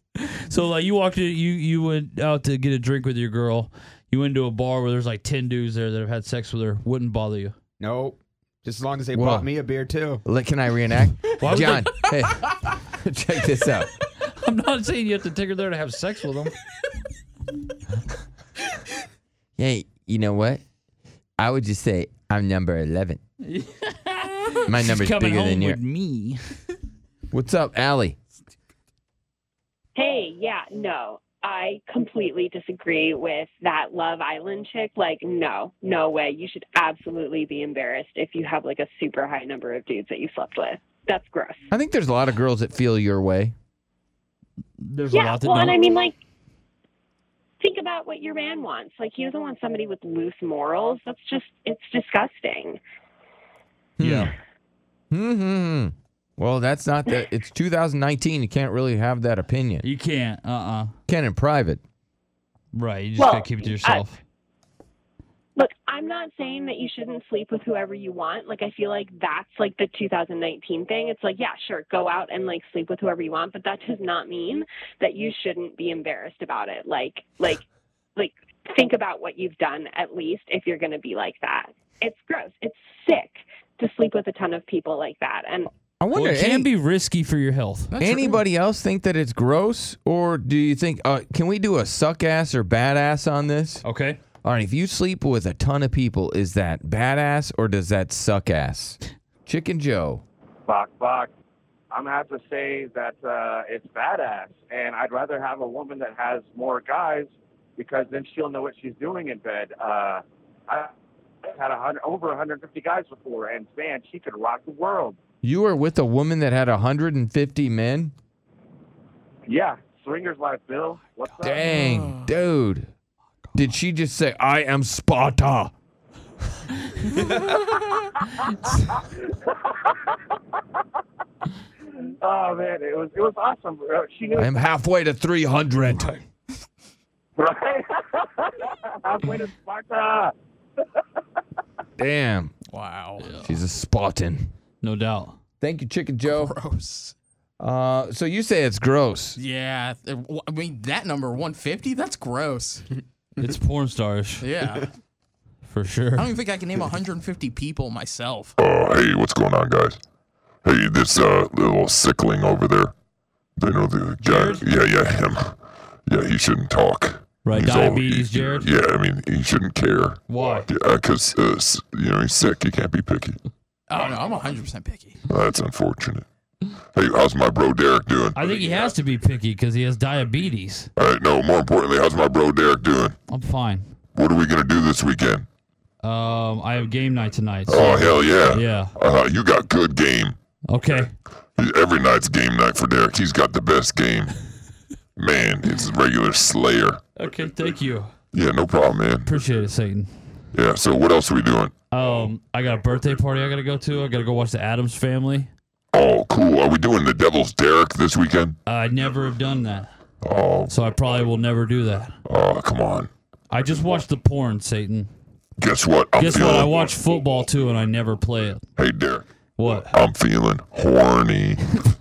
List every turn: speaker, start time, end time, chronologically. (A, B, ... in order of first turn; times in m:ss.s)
0:00.2-0:07.5 A
0:07.8-0:10.2 B
0:09.1-0:09.5 C
0:10.2-0:13.9 C
0:11.4-0:12.1 A
0:14.3-0:16.5 A
0:19.6-0:20.6 C
0:21.4-0:23.2 C
0:23.5-0:26.4 A
0:24.7-0:25.8 C
0:27.3-0:28.2 C
0:29.9-0:41.7 D
0:41.7-0:43.5 C
0:44.8-0:45.8 A
0:45.1-0:46.2 D
0:47.6-0:52.8 D
0:54.0-0:54.3 C
0:54.0-0:54.3 A
0:55.1-0:59.8 C
0:59.8-1:00.9 A
1:01.1-1:01.8 C
1:02.7-1:04.2 A
1:03.2-1:04.0 D
1:05.6-1:17.6 D
1:18.2-1:25.7 D
1:26.0-1:26.7 C
1:26.1-1:27.9 A
1:27.9-1:28.4 E
1:28.0-1:33.8 C
1:33.8-1:34.2 A
1:34.4-1:40.2 C
1:40.7-1:41.3 F
1:41.9-1:50.9 F
1:51.5-1:55.2 F
1:55.4-1:58.1 C
1:59.5-2:01.8 F
2:01.4-2:02.9 C
2:03.5-2:05.7 C
2:07.2-2:07.5 F
2:08.9-2:09.9 F
2:12.2-2:14.5 F
2:14.4-2:16.2 C
2:17.4-2:20.3 F
2:22.0-2:22.5 C
2:22.7-2:23.4 E
2:23.4-2:24.5 C
2:24.8-2:25.4 A
2:25.6-2:26.5 C
2:26.2-2:27.1 E
2:27.6-2:29.4 C
2:29.4-2:33.0 E
2:33.4-2:34.4 A
2:34.4-2:34.9 E
2:35.7-2:36.3 A
2:36.1-2:38.6 E
2:38.6-2:40.0 G
2:40.6-2:42.9 G
2:43.6-2:45.5 G
2:44.2-2:44.6 A
2:46.1-2:53.4 G
2:47.4-2:48.7 A
2:50.3-2:50.7 A
2:53.9-2:55.2 E
2:55.3-2:56.2 G
2:56.9-2:58.7 G
2:58.3-3:00.9 A
3:01.0-3:03.2 G
3:03.3-3:03.9 A
3:04.1-3:05.5 G
3:06.0-3:08.9 A
3:07.7-3:14.4 G
3:10.7-3:11.1 A
3:15.2-3:17.1 G
3:17.2-3:18.1 A
3:18.3-3:19.4 G
3:19.2-3:20.1 A
3:20.5-3:21.7 G
3:21.9-3:25.5 A
3:25.9-3:28.6 G
3:28.6-3:29.9 A
3:30.2-3:31.3 G
3:30.7-3:32.1 A
3:32.2-3:33.1 G
3:33.5-3:35.1 A
3:35.6-3:37.0 G
3:36.1-3:38.6 A
3:38.8-3:41.8 G
3:39.6-3:40.0 A